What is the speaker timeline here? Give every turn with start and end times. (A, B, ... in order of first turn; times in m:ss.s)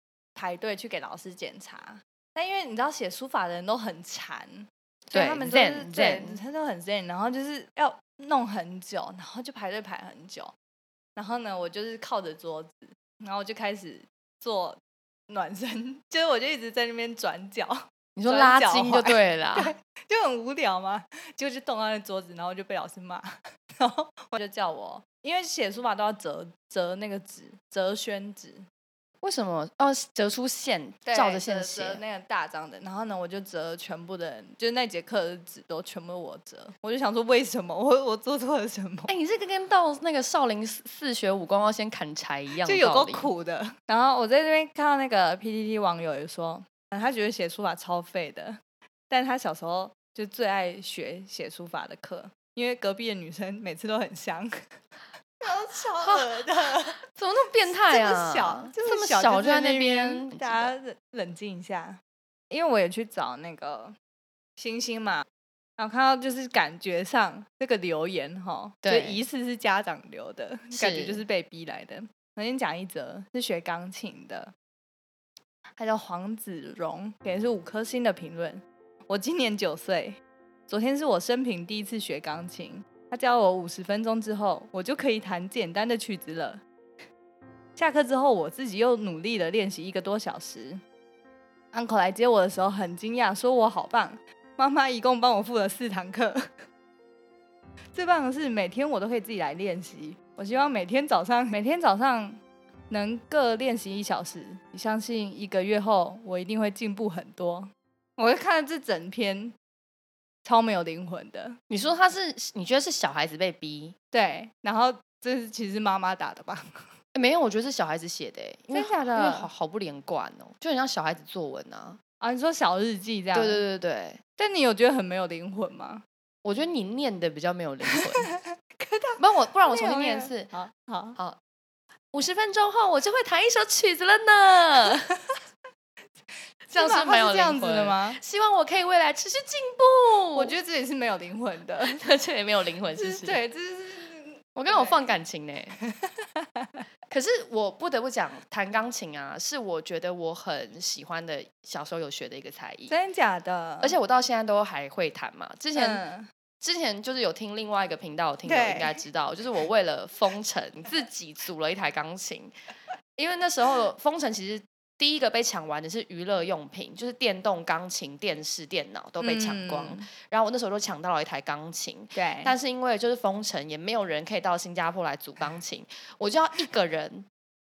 0:00.3-0:10.5 A
0:05.1-0:06.4 B
0:11.2-0:28.6 A
0:18.2-0:19.7 B
0:29.2-0:32.0 B
0:31.0-0:39.1 A
0:39.1-0:43.3 B
0:42.6-0:54.7 A
0:55.4-0:57.0 A
0:57.1-1:00.7 B
0:57.6-1:04.0 A
1:04.6-1:05.2 A
1:05.8-1:14.5 A
1:08.8-1:09.2 B
1:10.7-1:11.2 B
1:15.8-1:26.6 A
1:27.8-1:30.8 A
1:31.7-1:36.5 A
1:37.9-1:49.5 A
1:50.4-1:51.6 A
1:51.7-1:53.9 B
1:54.1-1:56.9 A
1:57.1-2:02.0 B
1:58.7-1:59.5 A
2:02.2-2:03.6 A
2:03.3-2:04.2 B
2:04.4-2:06.0 A
2:06.4-2:08.3 B
2:08.2-2:11.2 A
2:09.2-2:10.5 B
2:12.1-2:15.1 B
2:16.7-2:18.2 A
2:16.7-2:20.5 B
2:20.3-2:22.0 A
2:21.9-2:23.4 B
2:22.9-2:25.0 A
2:24.5-2:25.8 B
2:25.8-2:26.8 A
2:27.1-2:32.9 B
2:32.9-2:33.9 A
2:33.8-2:36.0 B
2:35.7-2:36.3 A
2:36.6-2:42.5 B
2:38.4-2:39.0 A
2:43.2-2:57.3 B
2:49.2-2:50.1 A
2:52.1-2:52.5 A